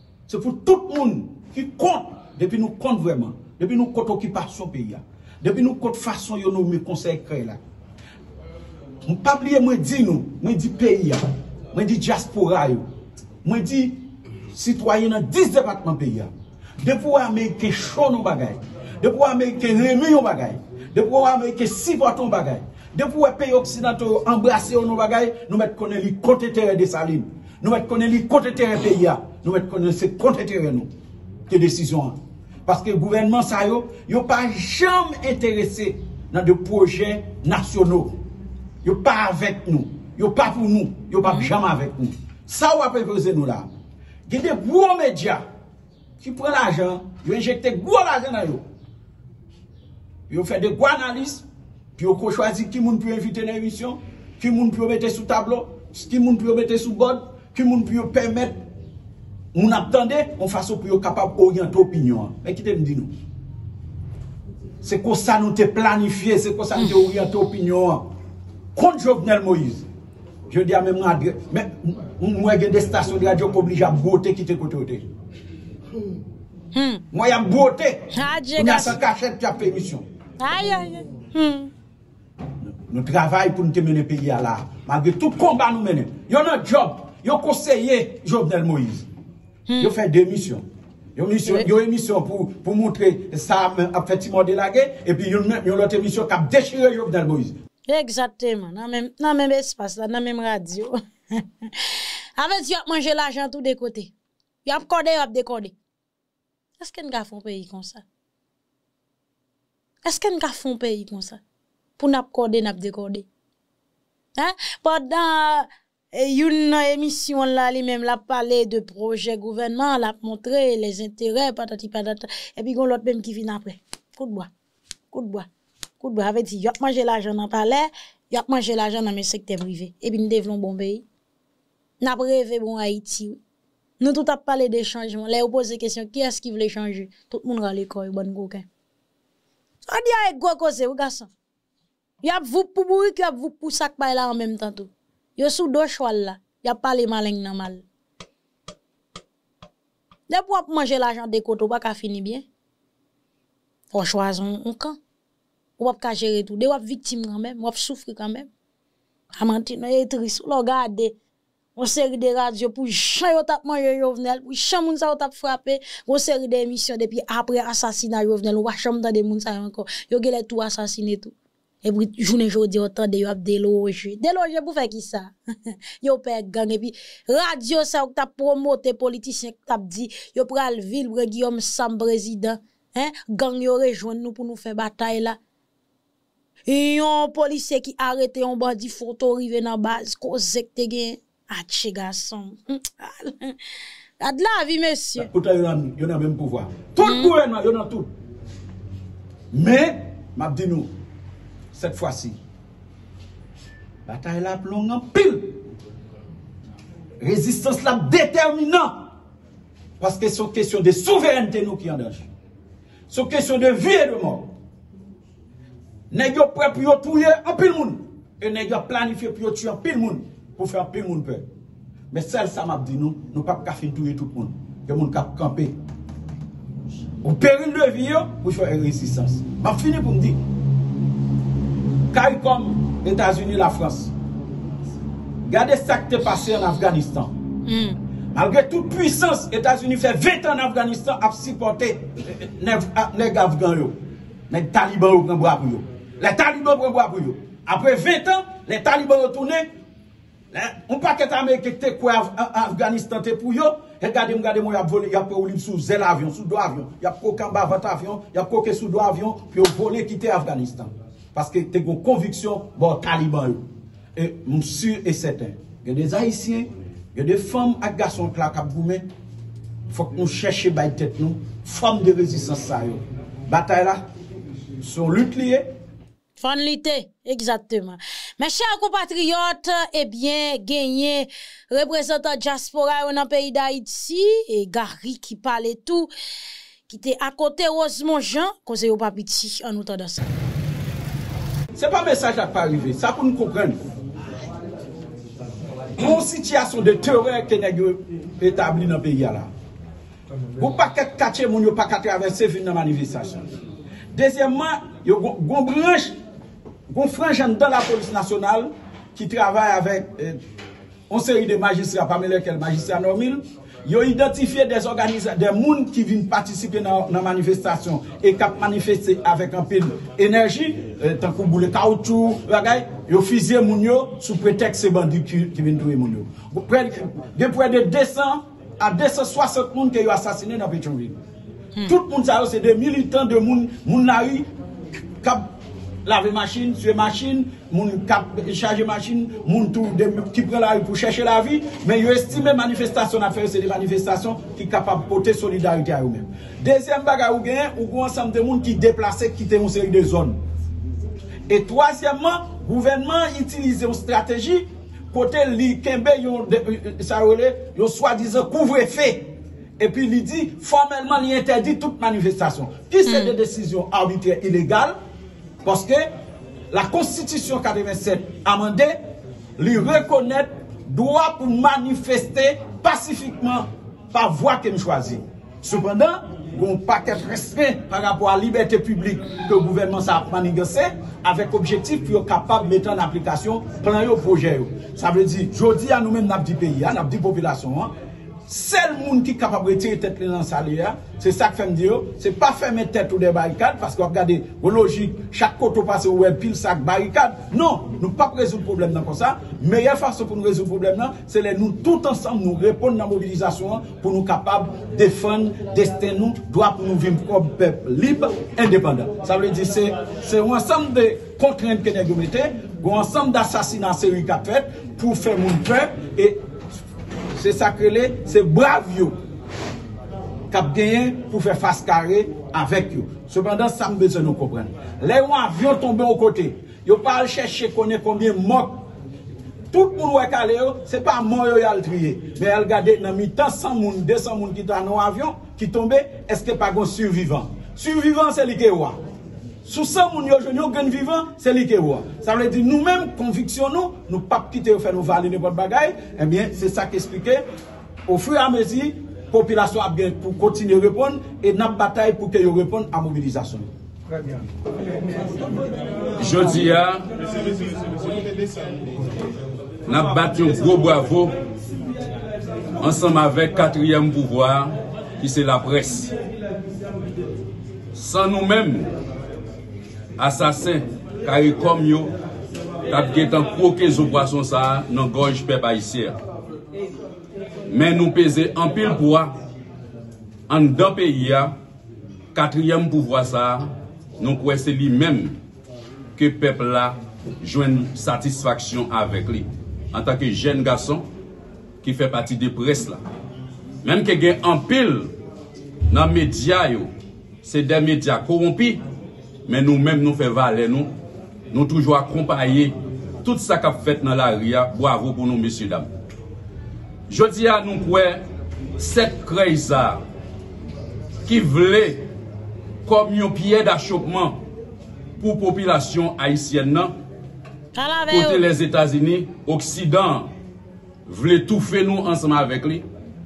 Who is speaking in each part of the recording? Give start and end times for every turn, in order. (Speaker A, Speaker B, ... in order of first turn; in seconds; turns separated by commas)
Speaker A: 0.3-7.6, Speaker A: 9.1-12.9, Speaker A: 13.4-30.9, Speaker A: 31.5-38.2, Speaker A: 38.8-43.7, Speaker A: 44.3-45.4, Speaker A: 46.2-48.6, Speaker A: 50.3-51.5, Speaker A: 52.0-58.6, Speaker A: 59.5-63.1, Speaker A: 64.8-68.1, Speaker A: 68.8-69.9, Speaker A: 70.5-75.1, Speaker B: 76.7-77.0, Speaker A: 77.1-80.0, Speaker B: 78.1-79.0, Speaker B: 80.4-81.7, Speaker A: 82.6-89.1, Speaker B: 89.7-89.9, Speaker A: 89.8-97.6, Speaker B: 97.9-104.1, Speaker B: 104.7-105.8, Speaker B: 106.8-108.0, Speaker B: 110.0-111.4, Speaker B: 112.0-113.3, Speaker B: 114.4-124.5, Speaker B: 125.1-125.5, Speaker B: 126.0-131.1, Speaker B: 132.0-133.4, Speaker B: 134.0-138.7, Speaker B: 139.9-141.3, Speaker B: 142.2-147.8, Speaker B: 150.3-152.5, Speaker B: 153.9-155.0, Speaker B: 155.8-158.5, Speaker B: 159.3-161.2, Speaker B: 161.8-185.4, Speaker B: 186.7-193.6, Speaker B: 194.2-195.3, Speaker A: 195.2-198.1, Speaker B: 197.0-197.3, Speaker A: 199.5-200.9, Speaker A: 201.7-202.4, Speaker A: 204.1-205.6, Speaker A: 207.2-209.1, Speaker A: 210.0-212.3, Speaker A: 213.1-214.6, Speaker A: 216.1-221.5, Speaker A: 222.1-225.8, Speaker A: 227.2-230.4, Speaker A: 232.1-234.1, Speaker A: 235.5-237.4, Speaker B: 237.7-238.0, Speaker A: 238.3-244.0, Speaker A: 244.5-249.7, Speaker A: 250.5-269.1, Speaker A: 269.9-274.0, Speaker A: 274.8-275.7, Speaker B: 276.4-286.1, Speaker B: 286.9-290.3, Speaker A: 291.8-293.8, Speaker A: 296.0-299.5, Speaker A: 300.6-303.5, Speaker A: 304.1-306.2, Speaker A: 306.9-310.4, Speaker A: 311.1-331.2, Speaker A: 331.9-334.5, Speaker A: 335.2-335.5, Speaker A: 336.1-350.4, Speaker A: 351.5-364.9, Speaker B: 363.1-363.3, Speaker A: 365.6-366.1, Speaker A: 366.7-369.0, Speaker A: 369.6-387.9, Speaker A: 388.5-416.4, Speaker A: 417.4-419.2, Speaker A: 420.5-428.9, Speaker A: 429.7-439.0, Speaker A: 439.6-447.4, Speaker A: 448.1-453.7, Speaker C: 456.2-457.6, Speaker C: 459.9-461.3, Speaker C: 462.8-466.1, Speaker C: 467.9-468.9, Speaker C: 470.2-472.1, Speaker C: 472.9-476.2, Speaker C: 477.7-479.4, Speaker C: 480.5-481.5, Speaker C: 482.3-485.4, Speaker C: 486.2-491.1, Speaker C: 491.8-493.0, Speaker C: 493.8-495.1, Speaker C: 495.9-496.9, Speaker C: 497.4-498.8, Speaker C: 499.5-500.9, Speaker C: 501.5-505.9, Speaker C: 507.1-508.2, Speaker C: 508.8-510.0, Speaker C: 511.3-512.1, Speaker C: 512.9-514.4, Speaker C: 515.2-516.9, Speaker B: 517.8-518.5, Speaker C: 518.1-520.3, Speaker C: 521.1-522.8